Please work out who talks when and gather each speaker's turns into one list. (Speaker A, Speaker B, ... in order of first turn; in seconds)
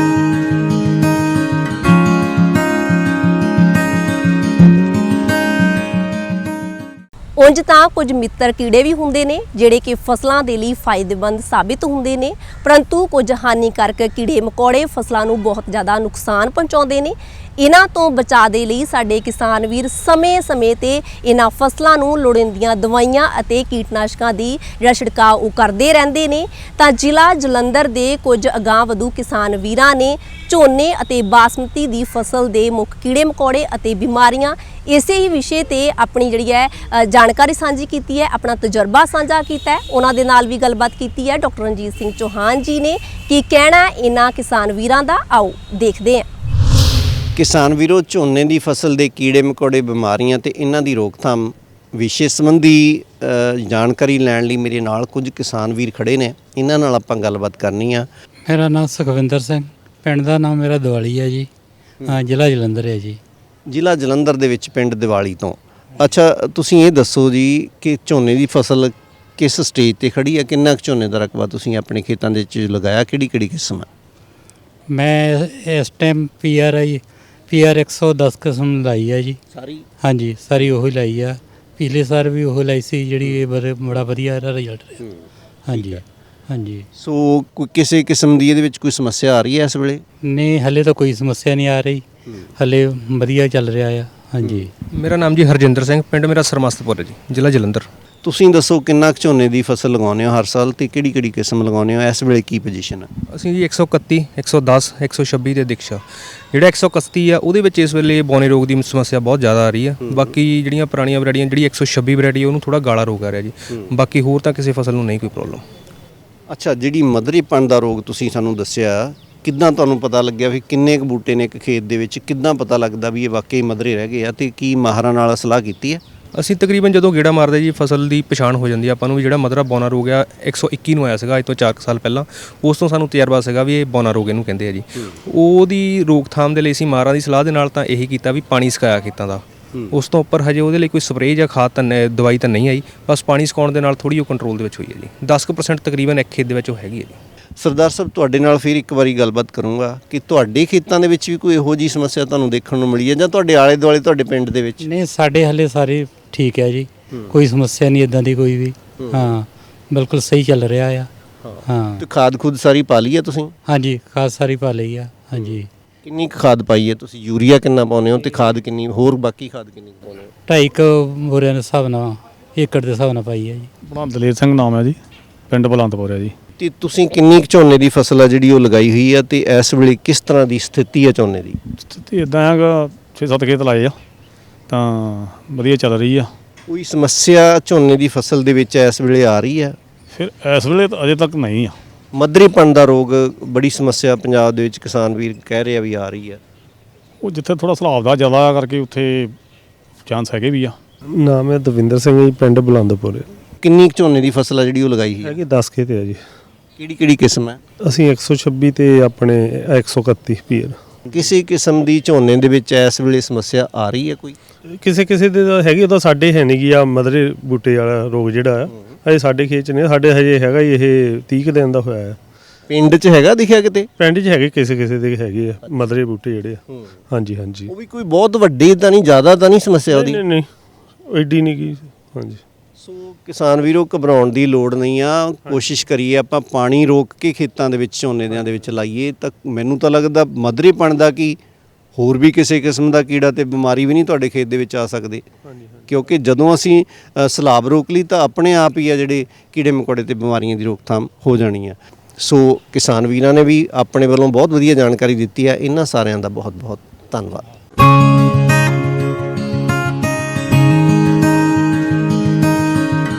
Speaker A: 7.4-46.3
Speaker B: 47.4-58.1, 63.7-73.9, 79.5-79.8, 85.7-86.0, 87.0-90.0, 94.4-94.7, 98.2-103.1, 110.0-110.3, 116.5-126.0, 147.6-154.8, 159.0-159.3, 161.4-163.5, 165.4-170.3, 176.6-181.6, 186.7-189.8, 192.1-196.4, 203.6-205.4, 206.8-207.6, 211.1-214.4, 222.7-223.9, 227.7-230.2, 232.8-241.4, 242.0-245.3, 245.9-257.5
Speaker C: 58.5-61.5, 62.1-63.2, 74.9-79.4, 80.0-85.0, 85.7-86.9, 90.2-92.0, 92.6-94.7, 154.8-161.1, 161.7-162.0, 163.7-165.7, 170.5-173.7
Speaker D: 94.9-97.9, 103.3-115.6, 126.3-147.2
Speaker E: 173.8-176.3, 181.8-184.0, 184.7-186.3, 190.1-191.8, 197.2-199.4, 200.1-200.8
Speaker F: 201.1-203.3, 205.2-206.2, 207.8-211.3, 214.7-222.2, 224.0-227.7, 229.9-230.5, 231.1-232.4, 245.5-245.9